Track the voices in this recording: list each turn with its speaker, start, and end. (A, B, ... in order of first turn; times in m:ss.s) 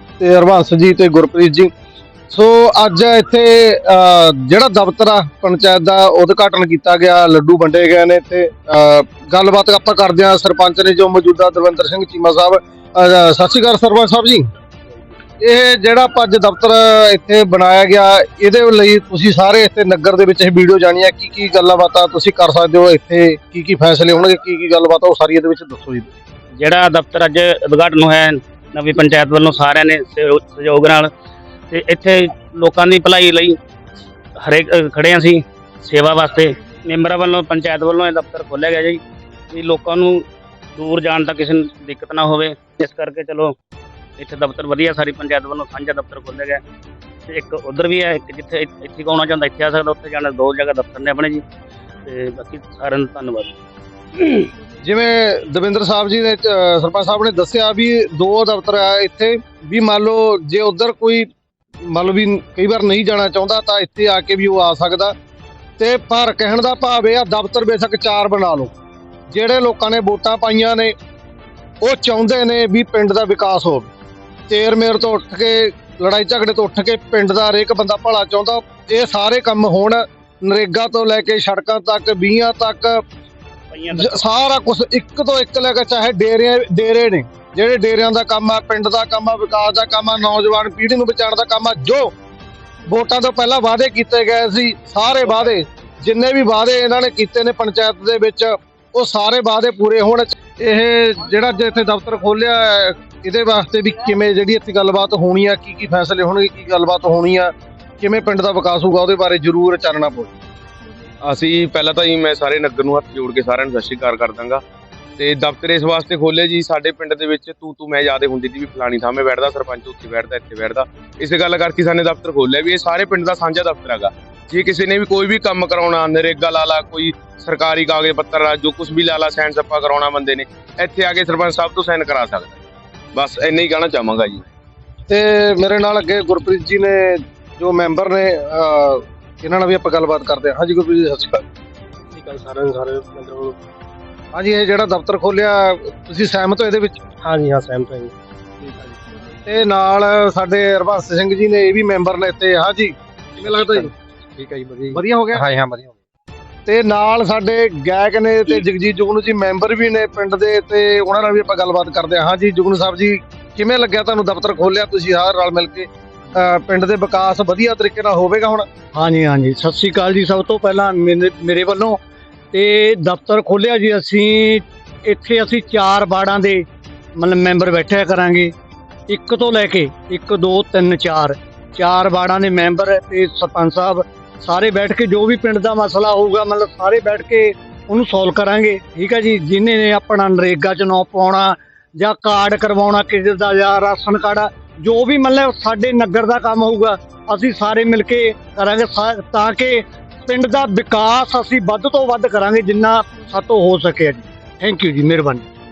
0:00.2-0:01.7 A
0:02.3-0:14.5 A
0:15.4-0:26.1 A
0:26.5-0:31.1 B
0:31.7-0:33.6 B
0:34.4-0:43.5 B
0:44.2-0:46.6 B
0:47.3-0:51.4 B
0:52.0-0:53.5 B
0:54.1-0:54.5 B
0:54.8-1:01.3 A
1:01.8-1:05.1 A
1:05.8-1:08.7 A
1:09.3-1:10.9 A
1:11.8-1:13.9 A
1:14.5-1:23.0 A
1:23.7-1:24.2 B
1:23.9-1:32.1 A
1:32.8-1:50.3 A
1:51.2-1:54.6 C
1:55.2-2:12.6 C
2:13.1-2:14.4 C
2:15.1-2:21.4 A
2:22.1-2:23.6 D
2:24.3-2:27.0 A
2:27.2-2:29.1 D
2:29.4-2:33.9 A
2:33.5-2:36.0 D
2:34.9-2:35.5 A
2:36.6-2:48.6 A
2:48.9-2:52.0 E
2:52.5-2:56.6 E
2:57.2-2:58.5 E
2:59.1-3:25.4 E